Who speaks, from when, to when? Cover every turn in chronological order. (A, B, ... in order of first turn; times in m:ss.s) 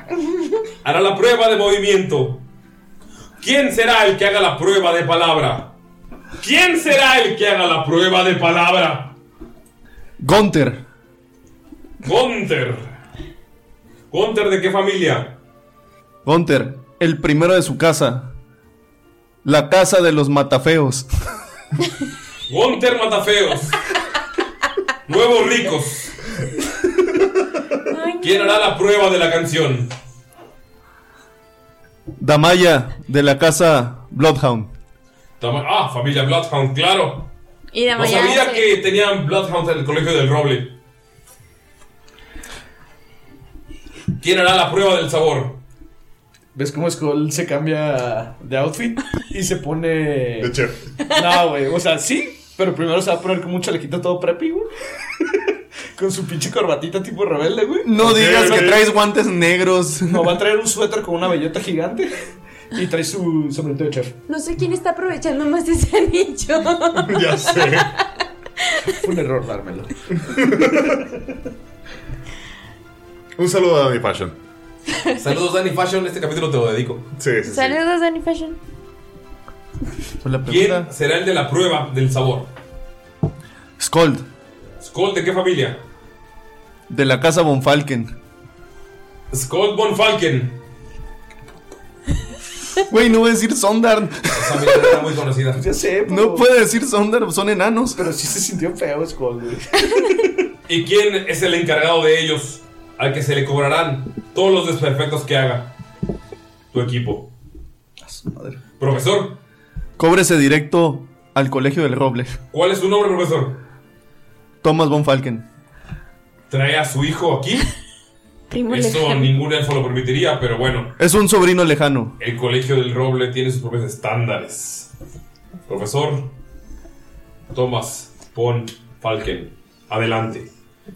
0:00.8-0:02.4 A
0:03.4-0:05.7 A
0:06.4-0:09.2 A
0:10.2-0:10.8 B
0:12.0-0:12.9 A
0:14.1-0:15.4 A
0:16.2-0:18.3 B
0:19.4-0:21.1 B
0:22.5-0:23.7 A
0:25.1-0:26.2 A
0:27.9-0:28.7 C
0:28.2-0:29.9 A
0:32.2-0:34.7 B
0:35.4-0:37.3 A
0:37.7-0:38.7 C
0:37.9-0:40.7 A
0:44.2-0:45.6 A
0:46.5-0:50.5 D
0:50.4-0:50.8 E
0:51.0-0:54.7 D
0:56.0-0:58.7 D
0:57.8-1:00.4 B
0:58.0-0:58.8 E
1:00.0-1:02.2 D
1:02.7-1:04.2 D
1:04.3-1:08.0 C
1:07.0-1:07.9 E
1:09.0-1:09.9 D
1:10.3-1:10.8 E
1:13.4-1:14.3 E
1:15.2-1:17.1 A
1:17.2-1:17.8 E
1:17.4-1:18.6 C
1:20.2-1:20.9 B
1:20.4-1:22.5 A
1:23.8-1:24.2 B
1:24.8-1:25.8 A
1:26.9-1:28.1 B
1:29.3-1:30.6 A
1:32.9-1:35.0 B
1:34.3-1:35.6 A
1:35.5-1:36.5 D
1:36.0-1:38.0 B
1:37.9-1:40.2 D
1:40.7-1:45.7 A
1:46.7-1:47.3 A
1:48.0-1:48.6 D
1:48.8-1:49.4 A
1:50.0-1:52.4 B
1:52.5-1:53.6 A
1:54.6-1:55.4 B
1:56.5-1:57.7 A
1:58.5-1:59.3 C
1:58.7-2:01.0 A
2:01.0-2:02.1 B
2:02.2-2:04.9 A
2:05.7-2:06.3 A
2:07.5-2:10.5 A